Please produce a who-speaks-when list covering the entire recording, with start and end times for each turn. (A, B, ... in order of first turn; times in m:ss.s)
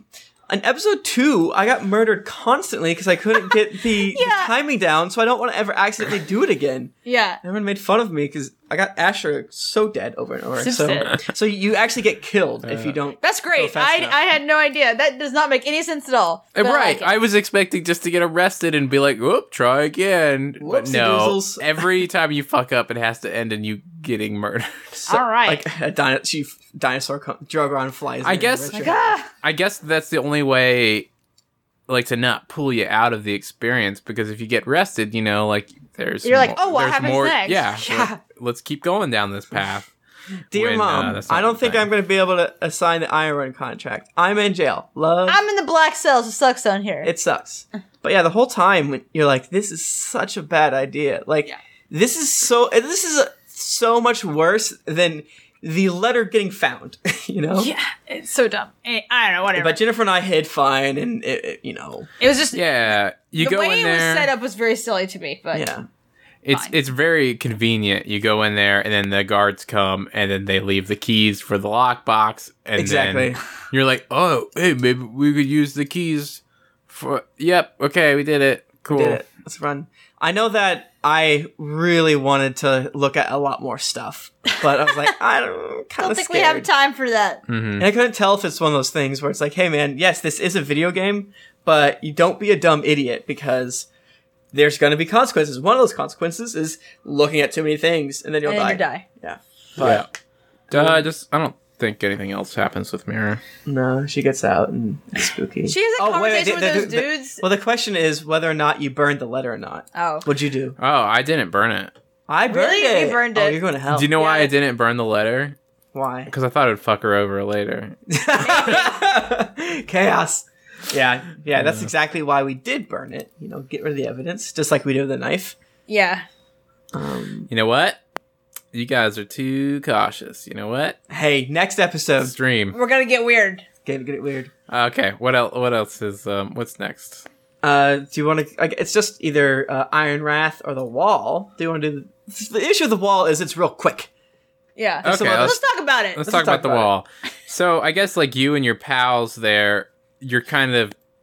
0:00.5-0:14.2 A
0:04.1-0:04.5 B
0:07.0-0:07.4 B
0:10.6-0:11.2 B
0:12.6-0:13.0 C
0:13.2-0:17.1 B
0:16.6-0:25.0 C
0:20.6-0:21.9 A
0:25.0-0:29.2 A
0:25.1-0:25.6 B
0:28.2-0:31.1 C
0:28.7-0:29.3 B
0:31.9-0:39.9 C
0:36.2-0:38.2 B
0:40.5-0:45.4 A
0:40.5-0:41.9 C
0:45.3-0:47.1 B
0:47.0-0:57.7 A
0:57.6-0:59.8 B
0:59.5-1:02.1 A
1:02.2-1:02.8 B
1:02.5-1:04.3 C
1:03.4-1:05.7 B
1:05.5-1:05.9 A
1:06.4-1:19.2 C
1:12.8-1:13.4 A
1:18.9-1:26.7 A
1:24.6-1:25.0 B
1:26.0-1:27.4 B
1:27.5-1:27.9 C
1:27.8-1:33.9 A
1:34.5-1:40.1 A
1:38.4-1:39.0 B
1:39.8-1:40.1 C
1:40.7-1:43.4 C
1:40.7-1:41.0 A
1:43.6-1:50.8 A
1:45.7-1:47.4 B
1:50.0-1:50.3 B
1:50.8-1:51.9 C
1:52.3-1:54.1 A
1:52.5-1:53.6 B
1:53.9-1:55.6 C
1:54.2-1:54.5 B
1:55.9-1:56.3 A
1:56.3-1:58.0 C
1:58.1-2:05.6 A
1:58.4-1:59.0 B
2:01.6-2:01.9 C
2:05.9-2:06.2 B
2:06.9-2:07.5 A
2:07.5-2:08.0 C
2:08.7-2:11.0 C
2:11.1-2:12.3 A
2:12.2-2:12.8 C
2:12.7-2:13.6 B
2:13.8-2:14.5 A
2:14.7-2:17.3 C
2:17.6-2:24.1 A
2:24.8-2:26.3 B
2:25.0-2:25.6 A
2:25.0-2:25.6 C
2:26.1-2:30.9 C
2:26.2-2:26.9 A